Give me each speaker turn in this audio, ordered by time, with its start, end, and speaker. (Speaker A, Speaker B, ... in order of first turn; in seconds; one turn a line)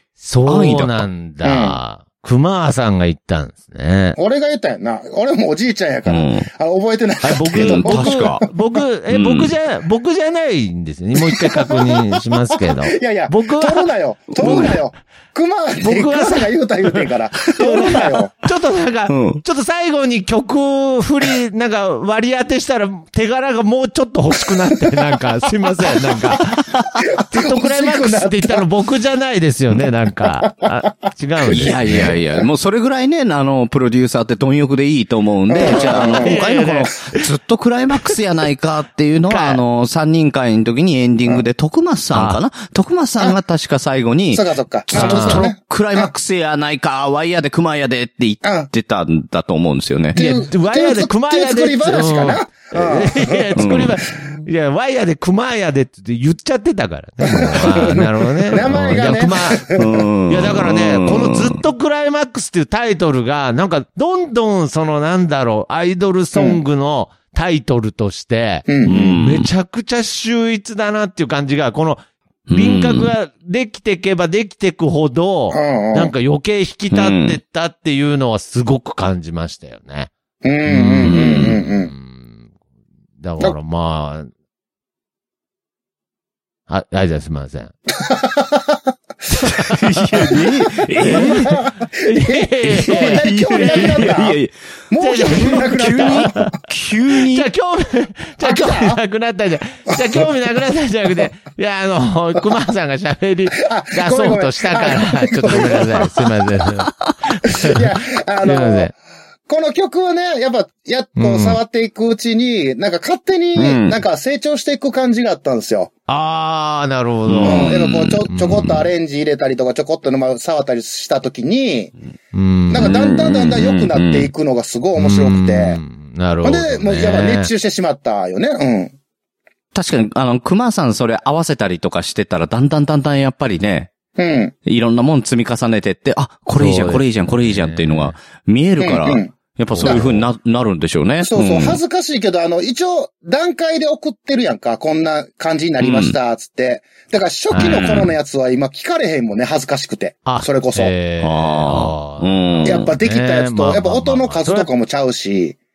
Speaker A: 0.2-4.2
Speaker B: 0.4-1.0
Speaker C: 1.4-1.8
Speaker C: 4.2-8.5
Speaker B: 6.1-6.5
Speaker A: 7.2-14.8
Speaker B: 7.5-8.4
Speaker B: 9.1-9.5
Speaker C: 11.2-18.3
Speaker B: 14.3-14.7
Speaker A: 15.8-16.6
Speaker A: 17.5-32.1
Speaker B: 19.1-19.4
Speaker C: 24.7-25.0
Speaker C: 25.8-26.4
Speaker C: 26.9-28.6
Speaker C: 31.5-32.1
Speaker B: 31.5-50.2
Speaker C: 35.5-36.4
Speaker A: 35.6-37.2
Speaker A: 39.3-39.6
Speaker A: 42.1-42.4
Speaker C: 44.3-46.1
Speaker A: 44.9-45.5
Speaker C: 48.4-48.7
Speaker C: 50.1-53.5
Speaker A: 50.1-72.0
Speaker B: 53.5-53.9
Speaker C: 57.2-59.8
Speaker B: 58.5-59.1
Speaker B: 59.7-61.6
Speaker C: 66.3-66.6
Speaker C: 68.7-69.0
Speaker B: 68.8-69.5
Speaker B: 72.5-73.1
Speaker A: 72.5-80.1
Speaker C: 75.5-76.1
Speaker B: 76.9-77.4
Speaker C: 80.4-81.9
Speaker A: 80.7-82.4
Speaker B: 81.0-81.6
Speaker A: 83.2-84.3
Speaker A: 86.7-87.7
Speaker C: 88.0-88.8
Speaker A: 89.3-94.2
Speaker B: 89.4-91.6
Speaker C: 91.0-94.4
Speaker B: 92.6-94.5
Speaker C: 94.9-96.5
Speaker A: 95.0-96.6
Speaker B: 95.2-97.5
Speaker A: 97.1-108.9
Speaker C: 98.4-99.0
Speaker C: 99.9-100.3
Speaker C: 103.6-106.4
Speaker C: 107.5-108.9
Speaker C: 109.5-115.9
Speaker A: 111.2-111.6
Speaker B: 113.5-114.0
Speaker A: 116.1-117.8
Speaker B: 117.2-118.3
Speaker C: 117.4-121.9
Speaker A: 118.3-118.8
Speaker A: 122.3-122.9
Speaker C: 122.7-125.8
Speaker B: 122.8-124.3
Speaker A: 125.0-127.5
Speaker C: 126.4-128.9
Speaker B: 129.7-133.9
Speaker C: 134.2-134.5
Speaker B: 134.6-141.8
Speaker A: 136.6-138.1
Speaker C: 138.8-140.1
Speaker A: 139.7-140.2
Speaker C: 141.2-150.9
Speaker B: 145.8-146.2
Speaker A: 147.5-148.0
Speaker B: 147.5-148.1
Speaker A: 150.2-154.7
Speaker B: 151.2-152.9
Speaker C: 152.6-155.6